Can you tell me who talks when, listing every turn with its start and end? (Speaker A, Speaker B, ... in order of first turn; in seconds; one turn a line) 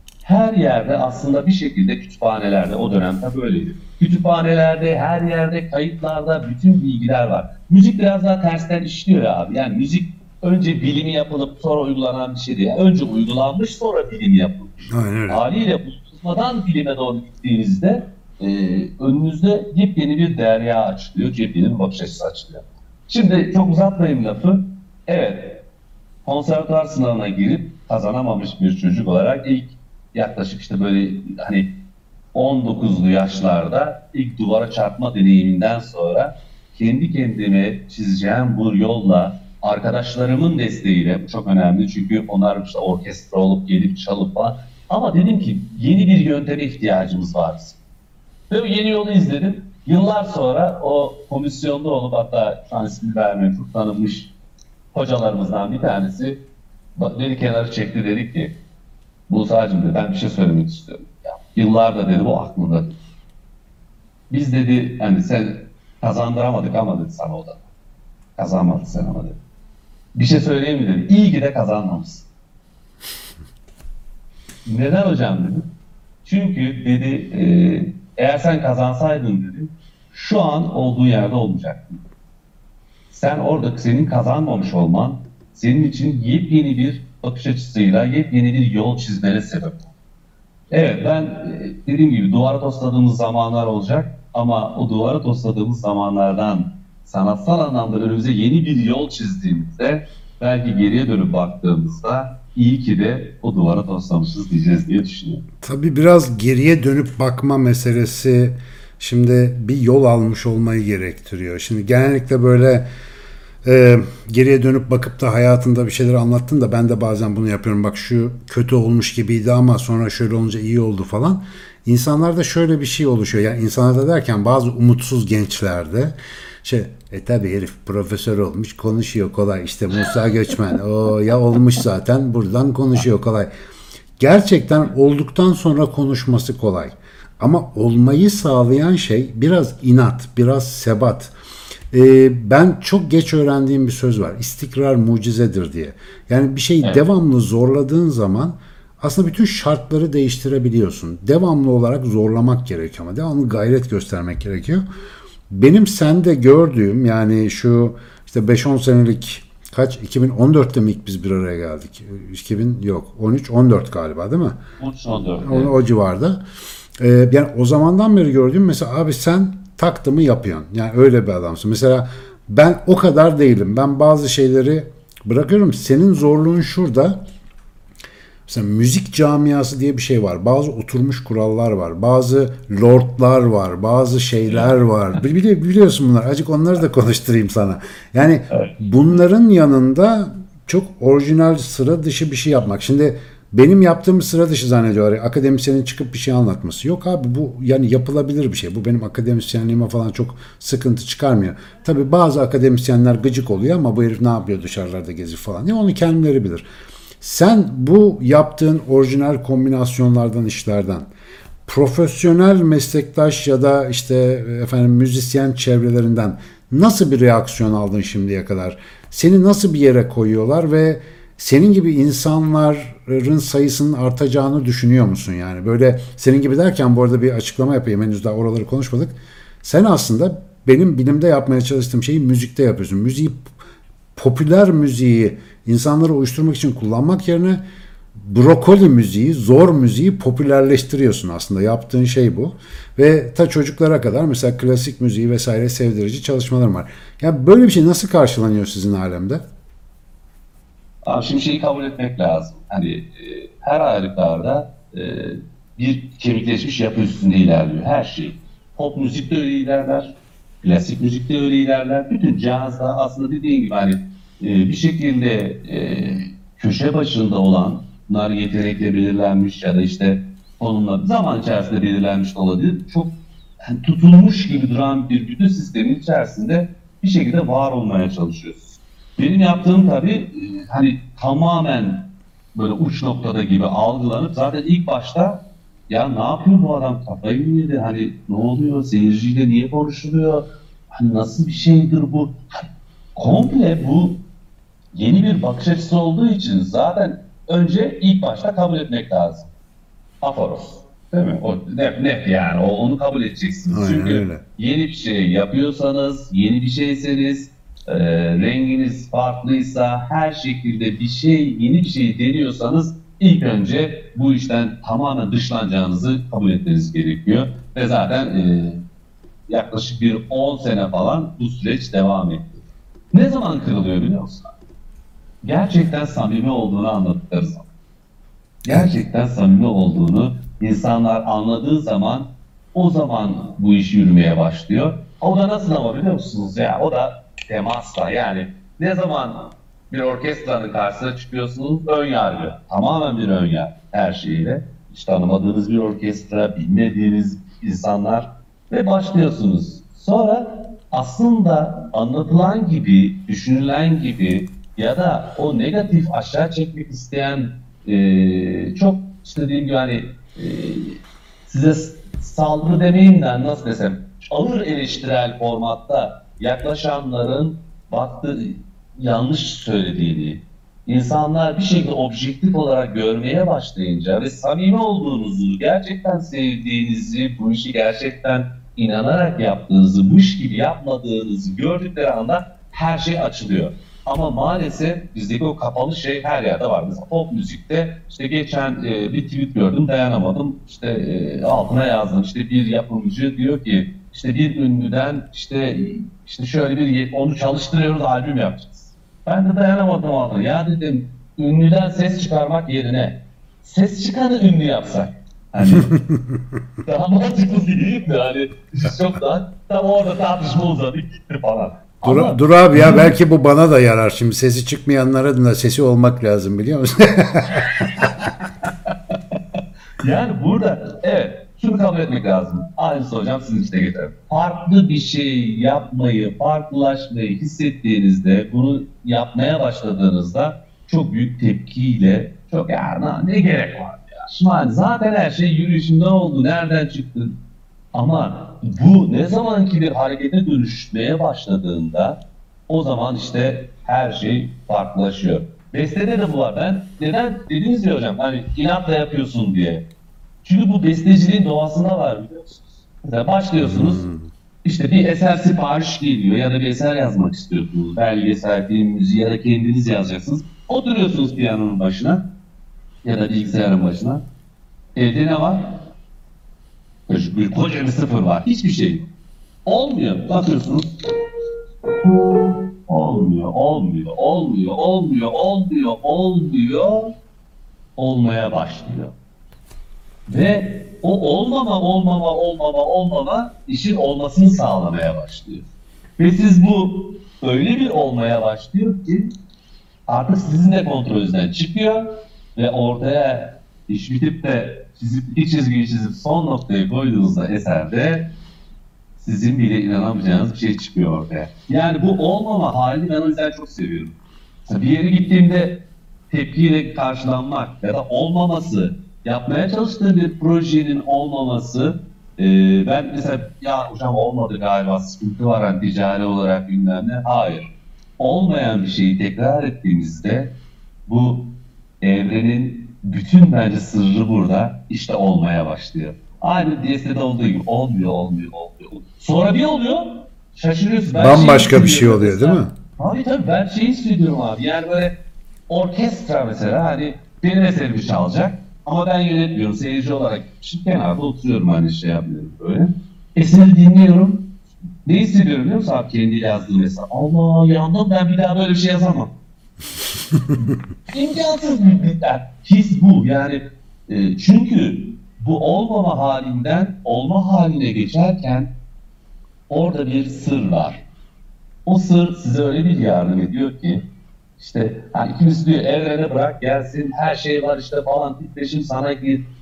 Speaker A: 0.2-25.6
Speaker B: 14.9-15.4
Speaker A: 26.2-31.7
Speaker A: 32.3-47.8
Speaker A: 48.5-54.3
Speaker A: 54.9-56.4
Speaker A: 57.0-58.5
Speaker A: 59.3-63.0
Speaker A: 64.3-67.6
Speaker A: 68.4-69.4
Speaker A: 70.2-72.3
Speaker A: 74.7-75.7
Speaker A: 76.2-82.0
Speaker A: 83.1-89.9
Speaker A: 90.7-105.4
Speaker B: 105.6-112.9
Speaker B: 113.6-133.5
Speaker B: 134.2-141.3
Speaker B: 141.9-154.8
Speaker B: 155.5-164.6
Speaker A: 164.8-165.7
Speaker B: 165.4-166.4
Speaker B: 167.0-177.2
Speaker B: 178.5-206.7
Speaker A: 184.4-184.8
Speaker A: 188.5-188.8
Speaker B: 207.2-211.1
Speaker B: 211.7-233.5
Speaker B: 234.2-237.6
Speaker B: 238.2-249.4
Speaker A: 251.0-294.2
Speaker A: 294.9-299.5
Speaker A: 300.2-318.8
Speaker B: 303.7-304.4
Speaker A: 319.5-324.6
Speaker A: 325.4-327.7
Speaker A: 328.7-406.0
Speaker B: 405.7-406.4
Speaker A: 406.9-413.1
Speaker B: 412.0-418.1
Speaker A: 417.7-419.2
Speaker A: 420.0-437.4
Speaker A: 437.9-449.9
Speaker A: 450.4-454.0
Speaker B: 453.6-454.3
Speaker A: 454.6-462.2
Speaker A: 463.0-464.2
Speaker A: 465.0-465.8
Speaker A: 467.1-469.1
Speaker A: 469.7-470.9
Speaker A: 472.9-477.1
Speaker A: 478.0-479.1
Speaker A: 480.3-485.7
Speaker A: 486.2-489.4
Speaker A: 490.1-498.3
Speaker A: 499.2-520.5
Speaker A: 521.1-535.2
Speaker B: 531.1-532.7
Speaker A: 535.7-544.5
Speaker A: 545.0-549.3
Speaker B: 550.4-550.6
Speaker A: 551.1-558.7
Speaker A: 559.7-561.0
Speaker A: 561.9-564.0
Speaker A: 564.6-569.5